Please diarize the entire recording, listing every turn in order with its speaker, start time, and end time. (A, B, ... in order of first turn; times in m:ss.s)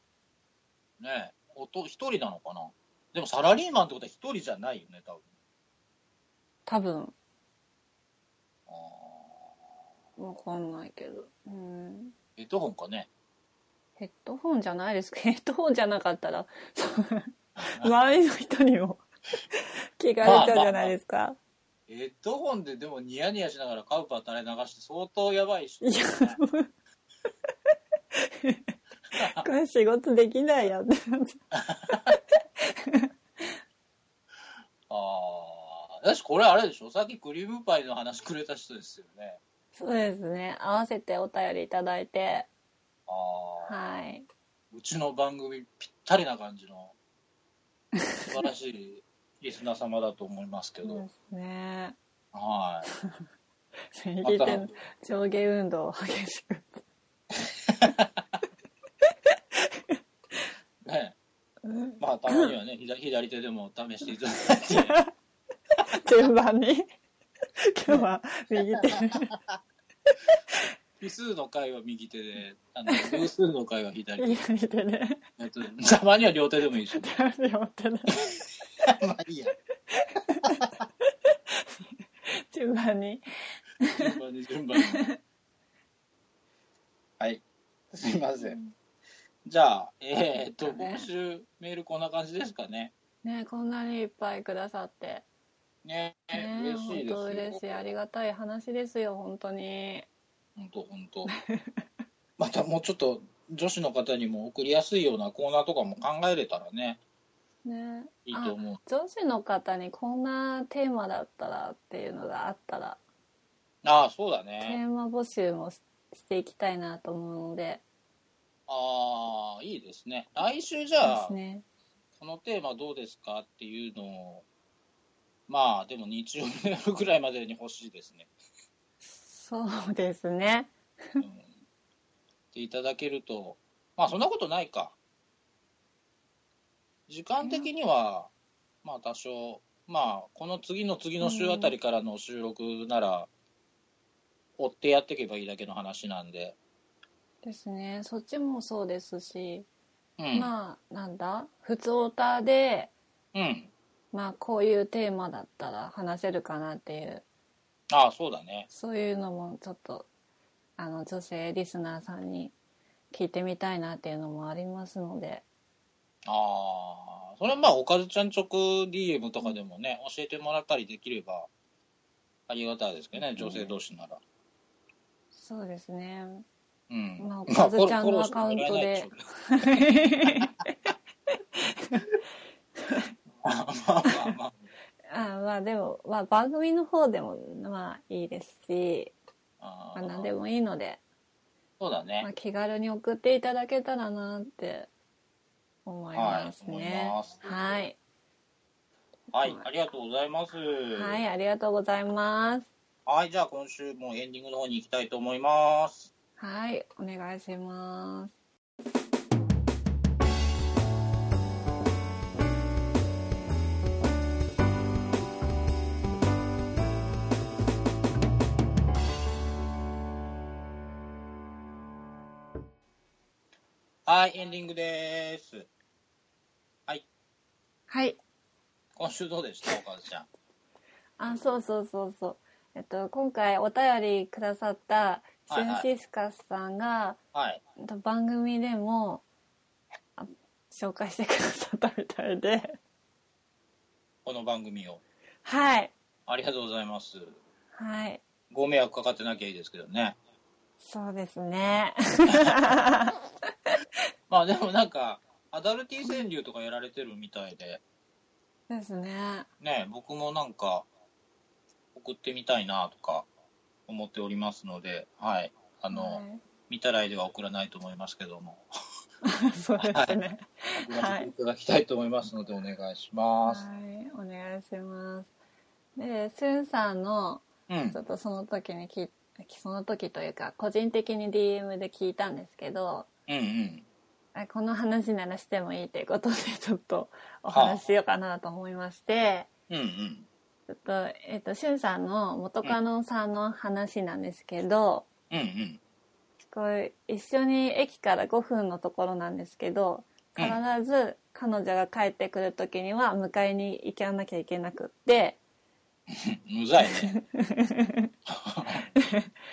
0:01.0-0:05.2 A
0:06.7-0:07.1 B
0:08.7-0:09.5 A
0:10.2-0:12.1 B
0:12.4-0:13.1 A
0:14.0-0:19.0 B
0:17.6-0:17.9 A
0:19.6-0:21.4 B
0:20.2-0:20.9 A
0:21.9-0:26.4 A
0:25.8-0:26.7 B
0:28.2-0:28.6 B
0:29.2-0:29.5 A
0:29.2-0:31.4 B
0:31.5-0:32.1 A
0:31.9-0:33.6 B
0:34.9-0:39.4 A
0:39.8-0:42.5 B
0:43.1-0:43.8 A
0:43.6-0:44.3 B
0:44.7-0:47.0 A
0:48.0-0:48.3 B
0:48.3-0:51.0 A
0:50.8-0:52.0 B
0:52.3-0:52.9 A
0:53.9-0:56.8 B
0:54.2-0:54.7 A
0:57.4-0:58.2 A
0:59.5-1:00.0 B
1:00.8-1:01.2 A
1:01.6-1:02.6 B
1:02.0-1:05.0 A
1:04.7-1:05.1 B
1:05.9-1:06.9 B
1:07.6-1:09.3 B
1:09.0-1:09.6 A
1:11.0-1:14.4 A
1:12.9-1:13.3 B
1:14.2-1:15.2 B
1:15.4-1:17.0 A
1:16.9-1:18.4 B
1:18.8-1:19.5 A
1:19.9-1:21.7 B
1:22.2-1:23.2 B
1:23.8-1:24.1 B
1:23.9-1:25.0 A
1:24.8-1:25.2 B
1:27.2-1:28.6 A
1:28.4-1:28.7 B
1:29.5-1:32.9 A
1:30.6-1:31.1 B
1:33.2-1:35.2 B
1:35.8-1:37.8 A
1:36.3-1:40.1 B
1:40.6-1:41.3 A
1:41.4-1:41.8 B
1:42.4-1:47.0 A
1:47.6-1:53.0 B
1:48.3-1:48.8 A
1:53.8-1:54.8 A
1:54.6-1:57.8 B
1:58.7-2:01.4 A
2:01.0-2:01.6 B
2:02.2-2:04.4 A
2:05.5-2:08.3 A
2:09.0-2:11.2 B
2:11.2-2:11.5 A
2:12.5-2:15.0 A
2:17.1-2:18.3 A
2:17.4-2:17.7 B
2:18.8-2:23.3 A
2:21.2-2:21.7 B
2:24.6-2:26.6 A
2:27.4-2:29.7 B
2:30.2-2:30.5 A
2:30.3-2:32.9 B
2:33.3-2:33.7 A
2:34.1-2:37.2 B
2:37.9-2:38.7 A
2:38.7-2:40.1 B
2:40.8-2:42.5 B
2:43.1-2:45.4 B
2:46.3-2:51.5 A
2:52.5-2:54.2 A
2:53.4-2:53.8 B
2:55.3-2:56.4 B
2:56.9-3:00.5 A
2:57.2-3:00.8 B
3:01.6-3:02.1 B
3:03.4-3:04.6 A
3:05.1-3:09.1 B
3:09.6-3:10.3 A
3:10.0-3:11.0 B
3:11.8-3:12.3 A
3:12.2-3:14.9 B
3:15.9-3:18.0 B
3:16.2-3:17.8 A
3:19.3-3:21.2 A
3:19.4-3:19.6 B
3:20.9-3:22.7 B
3:23.1-3:26.1 A
3:26.4-3:28.3 B
3:44.1-3:45.7 A
3:47.9-3:48.2 B
3:49.0-3:50.3 A
3:51.2-3:57.2 B
3:55.5-3:55.9 A
3:57.3-3:57.6 A
3:57.8-3:59.2 B
4:00.2-4:02.8 B
4:04.2-4:05.0 A
4:05.4-4:05.9 B
4:06.3-4:07.4 A
4:07.8-4:08.2 B
4:08.5-4:10.2 A
4:10.8-4:13.2 B
4:12.3-4:12.6 A
4:14.3-4:17.8 A
4:18.7-4:19.5 B
4:19.6-4:20.9 A
4:21.9-4:23.3 A
4:23.9-4:28.6 A
4:25.9-4:26.4 B
4:29.2-4:31.3 B
4:29.8-4:30.2 A
4:30.8-4:33.7 A
4:33.5-4:35.3 B
4:36.0-4:43.1 B
4:37.7-4:38.0 A
4:43.3-4:43.9 A
4:44.4-4:49.5 B
4:47.5-4:47.8 A
4:49.7-4:50.3 A
4:50.7-4:55.1 B
4:55.3-4:55.8 A
4:56.4-5:05.4 B
5:06.1-5:07.1 A
5:07.0-5:08.1 B
5:08.3-5:08.9 A
5:09.0-5:09.3 B